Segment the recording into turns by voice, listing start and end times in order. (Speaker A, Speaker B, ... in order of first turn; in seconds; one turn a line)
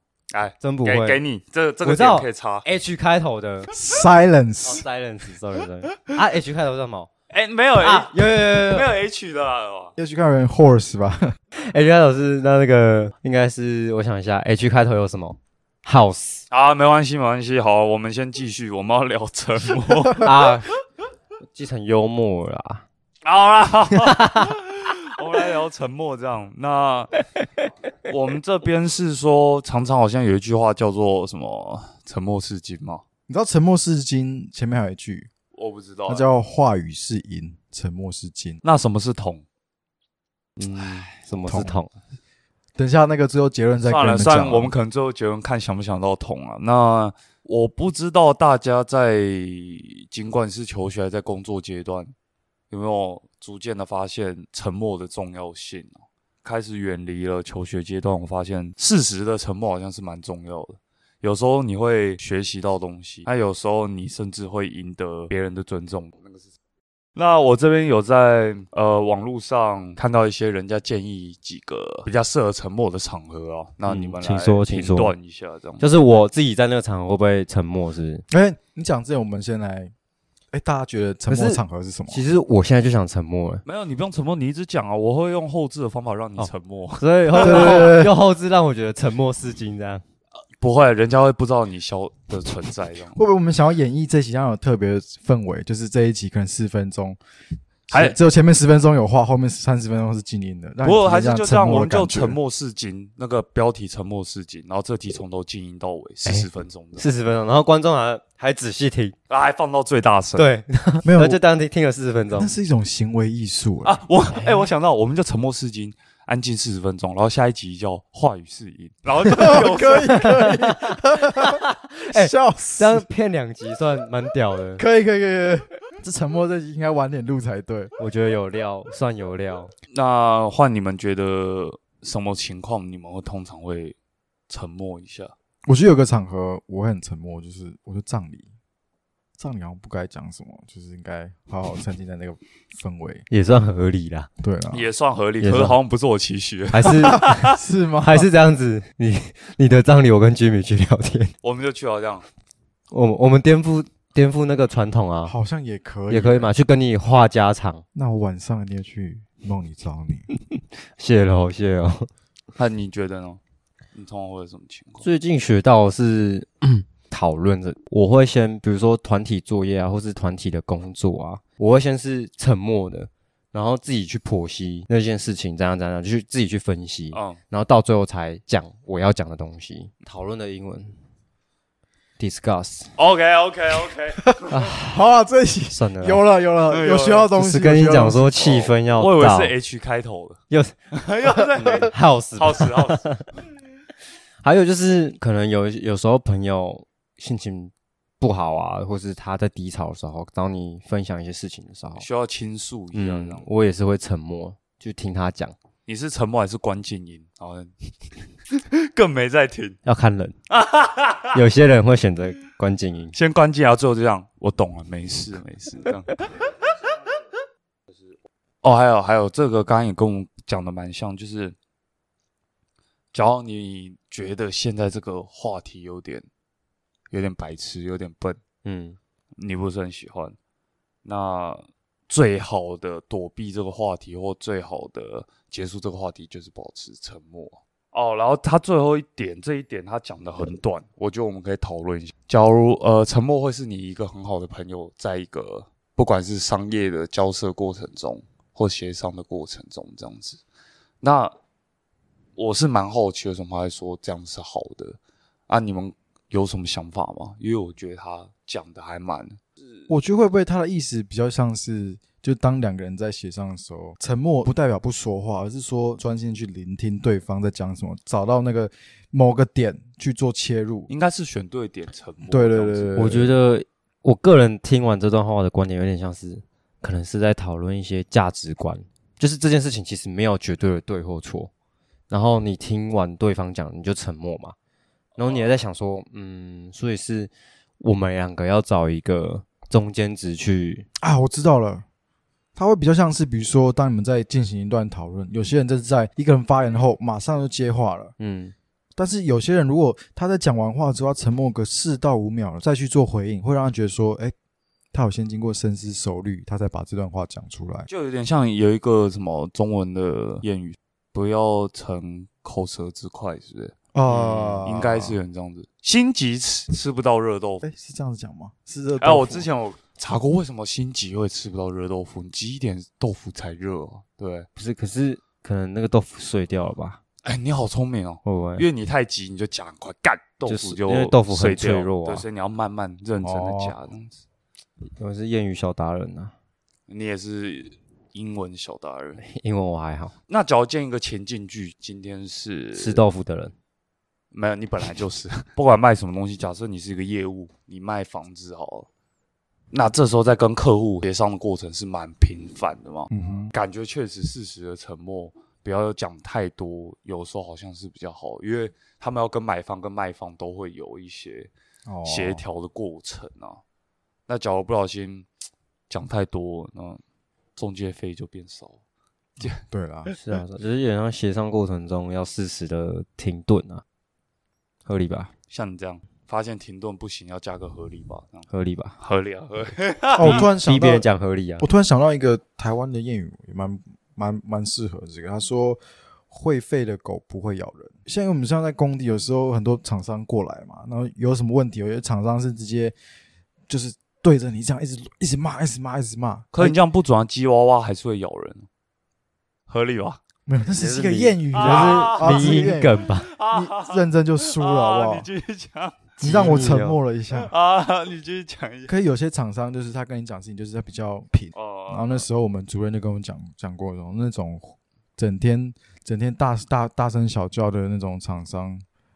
Speaker A: 0.3-2.7
Speaker B: 0.6-1.2
Speaker B: 1.8-3.7
Speaker C: 3.7-4.8
Speaker B: 4.6-7.1
Speaker A: 7.3-9.9
Speaker B: 7.8-8.9
Speaker C: 10.0-11.4
Speaker B: 11.6-16.4
Speaker A: 16.5-20.5
Speaker B: 20.1-20.7
Speaker B: 21.5-22.9
Speaker A: 23.2-27.1
Speaker B: 24.0-24.5
Speaker A: 28.1-33.0
Speaker C: 33.3-35.3
Speaker A: 35.5-36.3
Speaker C: 36.1-38.6
Speaker A: 38.6-39.5
Speaker B: 40.6-41.9
Speaker A: 40.8-41.1
Speaker C: 41.4-41.8
Speaker C: 42.8-44.7
Speaker A: 43.8-52.1
Speaker A: 52.7-66.5
Speaker A: 67.2-75.9
Speaker B: 73.9-75.1
Speaker B: 75.8-78.2
Speaker C: 78.3-79.9
Speaker C: 80.5-82.2
Speaker B: 81.3-83.6
Speaker A: 83.7-87.9
Speaker B: 86.4-90.0
Speaker C: 87.4-88.2
Speaker A: 90.6-93.2
Speaker C: 93.2-97.2
Speaker A: 97.9-98.2
Speaker C: 97.9-102.4
Speaker A: 100.8-107.1
Speaker B: 106.2-109.2
Speaker A: 109.3-110.5
Speaker B: 110.4-112.5
Speaker C: 111.0-111.4
Speaker C: 112.3-114.0
Speaker A: 113.8-120.2
Speaker B: 114.3-114.7
Speaker C: 119.3-123.1
Speaker B: 120.1-124.8
Speaker C: 124.8-127.9
Speaker B: 128.0-129.7
Speaker A: 129.9-134.0
Speaker A: 134.5-135.3
Speaker C: 135.7-138.5
Speaker C: 139.4-143.3
Speaker B: 143.3-144.3
Speaker C: 144.4-144.9
Speaker A: 144.7-147.6
Speaker B: 145.4-145.8
Speaker B: 146.7-151.3
Speaker C: 147.1-148.3
Speaker A: 151.4-152.2
Speaker B: 152.9-155.3
Speaker C: 155.3-156.5
Speaker B: 156.1-157.8
Speaker C: 157.9-160.3
Speaker B: 160.5-162.1
Speaker A: 162.6-163.4
Speaker A: 163.9-165.1
Speaker B: 165.0-180.9
Speaker A: 177.1-177.4
Speaker B: 182.2-182.9
Speaker A: 183.0-184.5
Speaker C: 184.2-188.6
Speaker B: 184.5-185.0
Speaker B: 185.7-186.2
Speaker A: 186.7-187.3
Speaker B: 187.3-189.5
Speaker A: 188.4-190.4
Speaker A: 190.9-193.1
Speaker B: 191.7-193.2
Speaker B: 194.4-202.1
Speaker A: 202.0-203.5
Speaker B: 202.9-205.6
Speaker A: 205.9-207.7
Speaker A: 208.5-209.8
Speaker B: 209.8-210.4
Speaker A: 210.5-211.4
Speaker B: 211.3-213.2
Speaker A: 213.1-216.3
Speaker A: 218.6-221.6
Speaker A: 223.1-226.3
Speaker A: 227.1-228.4
Speaker B: 228.6-229.0
Speaker A: 229.4-230.4
Speaker A: 231.1-250.4
Speaker A: 251.0-251.3
Speaker A: 252.4-255.0
Speaker A: 255.5-259.4
Speaker C: 259.9-270.9
Speaker A: 270.9-273.0
Speaker C: 272.3-273.3
Speaker B: 273.0-281.5
Speaker B: 282.1-284.6
Speaker B: 285.2-290.9
Speaker A: 285.2-285.5
Speaker C: 291.0-291.9
Speaker C: 292.6-298.1
Speaker B: 298.2-298.5
Speaker C: 299.0-304.3
Speaker C: 304.9-307.9
Speaker A: 307.9-317.6
Speaker C: 313.9-315.2
Speaker C: 317.6-319.5
Speaker A: 319.0-324.5
Speaker B: 324.6-327.0
Speaker A: 327.2-334.2
Speaker B: 328.2-328.7
Speaker B: 330.5-332.2
Speaker C: 333.2-333.8
Speaker B: 335.0-336.3
Speaker A: 336.9-339.2
Speaker B: 339.2-340.1
Speaker A: 340.3-343.0
Speaker B: 342.8-343.5
Speaker A: 344.3-348.9
Speaker A: 349.7-361.5
Speaker C: 353.1-353.5
Speaker C: 361.9-362.4
Speaker A: 362.1-363.6
Speaker A: 364.3-365.3
Speaker A: 365.9-367.0
Speaker A: 367.6-368.8
Speaker C: 369.4-370.1
Speaker B: 370.1-373.8
Speaker B: 374.9-375.3
Speaker A: 375.5-378.5
Speaker B: 378.5-379.0
Speaker A: 379.0-380.4
Speaker C: 380.2-381.1
Speaker B: 380.2-381.7
Speaker C: 381.6-392.9
Speaker C: 393.7-396.8
Speaker A: 396.5-398.7
Speaker A: 399.7-400.2
Speaker C: 400.5-405.3
Speaker B: 400.8-403.3
Speaker A: 401.5-406.6
Speaker B: 406.2-407.0
Speaker C: 406.2-407.5
Speaker A: 407.3-408.9
Speaker C: 408.9-418.8
Speaker A: 411.6-412.3